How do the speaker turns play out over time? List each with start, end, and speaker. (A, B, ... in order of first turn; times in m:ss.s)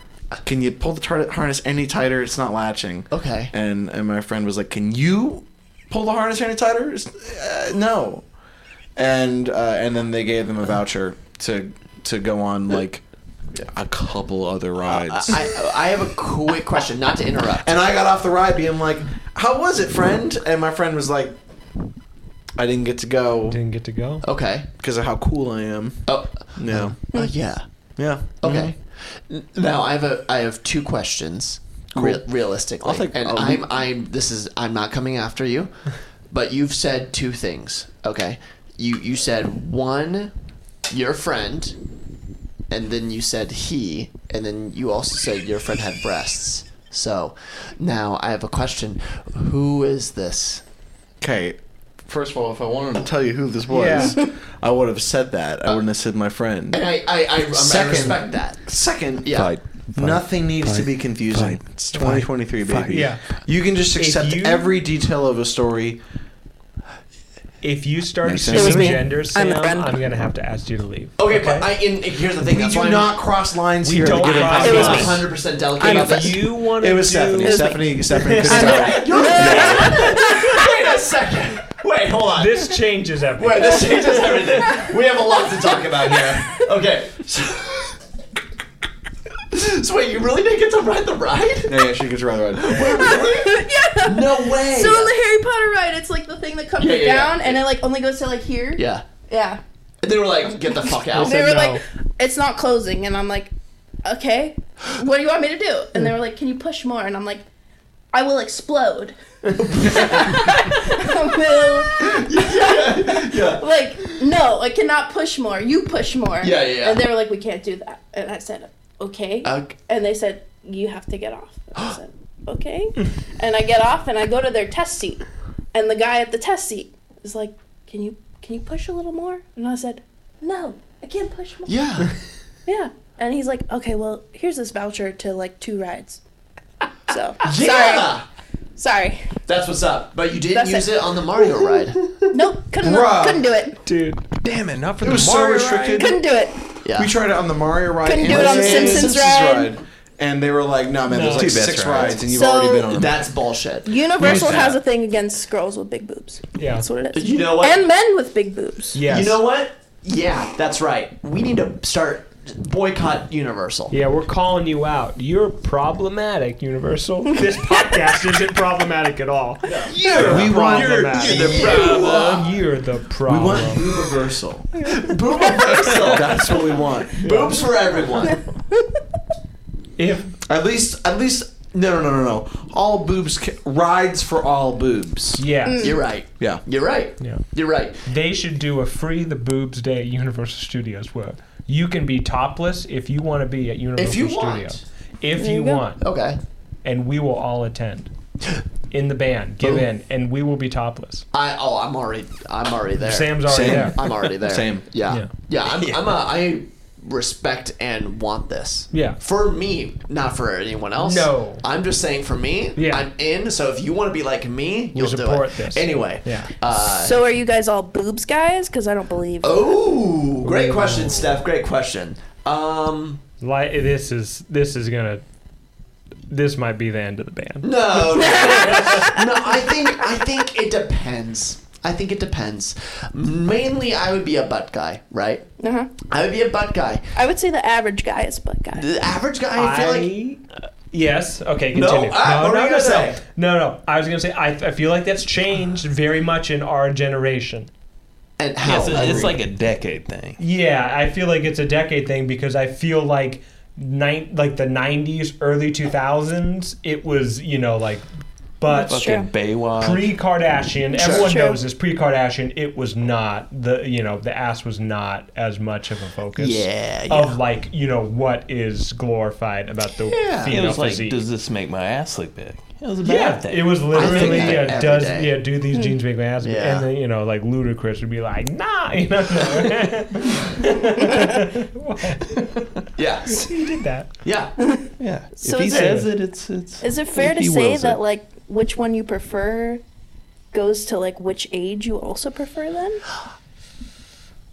0:00.4-0:08.2 A
0:03.1-0:03.5 B
0:09.0-0:13.0 A
0:13.5-0:15.5 A
0:14.8-0:17.7 B
0:17.6-0:21.3 A
0:22.6-0:23.6 A
0:23.5-0:24.2 C
0:24.2-0:24.7 B
0:24.8-0:27.0 A
0:26.1-0:27.6 B
0:28.0-0:28.7 A
0:28.4-0:40.3 B
0:31.9-0:32.2 A
0:32.8-0:33.8 A
0:40.9-0:41.8 B
0:42.7-0:50.6 B
0:51.2-0:56.8 A
0:53.7-0:54.2 C
0:56.7-0:58.6 B
0:57.5-1:06.0 A
0:59.2-0:59.5 B
0:59.3-1:03.1 D
1:02.9-1:03.2 C
1:03.9-1:04.7 C
1:07.6-1:11.7 C
1:08.3-1:09.0 A
1:08.3-1:09.0 D
1:08.5-1:09.9 E
1:11.2-1:13.2 B
1:12.4-1:15.3 A
1:13.8-1:15.3 C
1:14.2-1:16.4 B
1:14.6-1:15.2 E
1:15.8-1:19.6 C
1:15.8-1:20.1 A
1:15.8-1:16.2 E
1:17.4-1:20.7 E
1:18.5-1:22.8 B
1:22.3-1:24.3 C
1:23.4-1:28.0 B
1:29.5-1:31.9 B
1:31.7-1:33.2 A
1:32.5-1:35.1 B
1:33.0-1:39.6 E
1:36.8-1:37.6 B
1:38.8-1:39.0 B
1:40.0-1:41.6 B
1:41.1-1:43.5 E
1:41.1-1:41.8 C
1:44.0-1:47.4 E
1:48.1-2:11.7 E
1:49.6-1:50.6 B
1:52.0-1:54.1 B
1:56.4-1:57.0 B
1:59.4-1:59.8 B
2:11.6-2:12.1 B
2:12.6-2:16.2 E
2:17.1-2:18.1 E
2:17.4-2:18.2 B
2:18.8-2:19.3 E
2:19.4-2:22.2 B
2:20.5-2:23.8 E
2:22.8-2:23.5 A
2:23.8-2:24.2 C
2:24.4-2:26.1 D
2:25.0-2:26.2 A
2:25.9-2:26.6 E
2:26.8-2:27.1 B
2:27.0-2:33.2 A
2:28.0-2:29.7 E
2:28.2-2:29.2 B
2:31.1-2:31.6 C
2:31.2-2:32.2 D
2:32.2-2:33.0 E
2:32.9-2:34.7 B
2:33.8-2:39.0 E
2:34.2-2:34.8 D
2:34.2-2:34.6 A
2:36.6-2:36.8 C
2:37.1-2:37.8 B
2:38.9-2:39.4 C
2:39.0-2:43.9 B
2:43.9-2:53.9 C
2:49.6-2:49.9 B
2:49.9-2:51.9 A
2:50.0-2:52.5 D
2:51.2-2:52.5 B
2:53.2-2:54.7 A
2:54.8-2:58.4 B
2:56.0-2:57.2 A
2:57.2-2:57.8 C
3:00.0-3:00.4 C
3:00.4-3:05.4 A
3:05.4-3:06.0 C
3:05.6-3:06.0 E
3:05.8-3:08.0 B
3:08.0-3:16.0 C
3:14.0-3:14.8 B
3:15.4-3:15.8 E
3:16.0-3:16.4 B
3:16.8-3:18.1 C
3:18.9-3:21.2 C
3:21.3-3:37.2 B
3:23.0-3:24.0 C
3:23.4-3:24.8 A
3:25.8-3:26.0 D
3:28.9-3:29.2 C
3:31.0-3:31.6 C
3:32.8-3:33.1 C
3:34.9-3:36.5 C
3:36.7-3:39.7 E
3:39.4-3:43.2 B
3:40.4-3:41.4 C
3:43.4-3:45.2 C
3:46.3-3:49.1 C
3:47.6-3:55.5 B
3:48.2-3:49.2 E
3:55.6-3:55.9 E
3:56.0-3:57.1 B
3:57.1-3:58.9 E
3:58.7-4:00.1 B
3:59.5-4:07.7 C
4:01.7-4:03.2 B
4:08.4-4:09.4 B
4:08.6-4:10.4 D
4:08.9-4:09.3 A
4:10.4-4:18.0 C
4:18.6-4:19.2 C
4:18.7-4:19.3 E
4:18.8-4:20.1 D
4:19.8-4:31.2 C
4:21.0-4:21.6 E
4:21.0-4:21.3 B
4:26.4-4:27.4 B
4:30.1-4:30.7 B
4:30.5-4:34.8 D
4:33.0-4:42.7 C
4:33.9-4:35.4 B
4:36.4-4:36.9 B
4:43.0-4:43.5 B
4:43.3-4:44.1 C
4:44.2-4:44.5 B
4:44.6-4:46.1 E
4:45.0-4:48.0 D
4:45.7-4:46.0 C
4:46.8-4:49.8 E
4:50.5-4:53.0 E